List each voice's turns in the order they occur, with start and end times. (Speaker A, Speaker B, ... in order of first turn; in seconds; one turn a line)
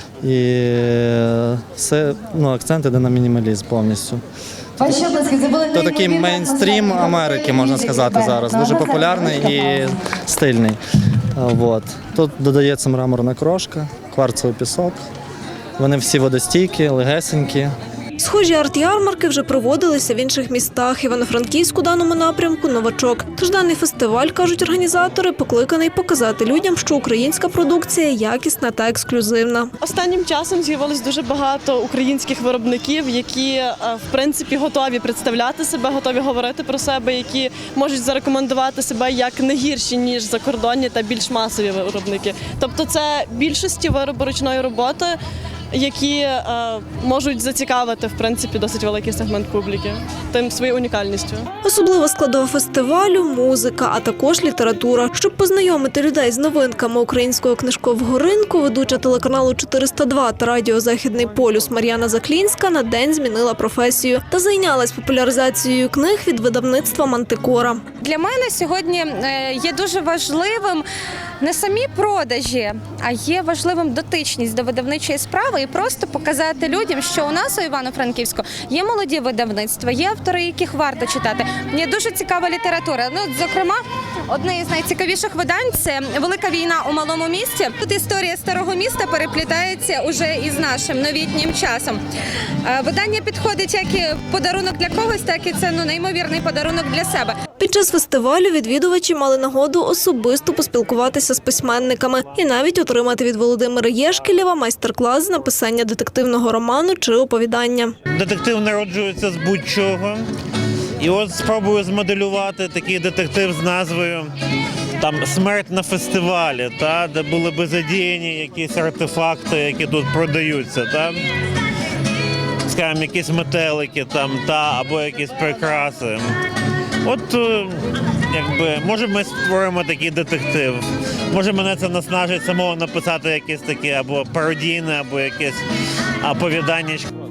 Speaker A: 0.2-4.2
Speaker B: 4.8-6.3
Speaker A: 5.7-10.8
Speaker B: 8.1-9.4
Speaker A: 11.3-15.0
Speaker A: 15.8-17.7
Speaker C: 18.2-29.7
Speaker D: 29.8-45.2
Speaker D: 45.7-51.5
Speaker C: 51.6-67.8
Speaker B: 68.0-70.9
Speaker B: 71.4-92.0
Speaker B: 92.6-97.4
Speaker C: 97.6-107.9
Speaker E: 108.1-110.3
Speaker E: 111.0-114.3
Speaker E: 115.0-121.2
Speaker E: 122.7-126.3
Speaker E: 127.0-135.6
Speaker E: 136.2-137.1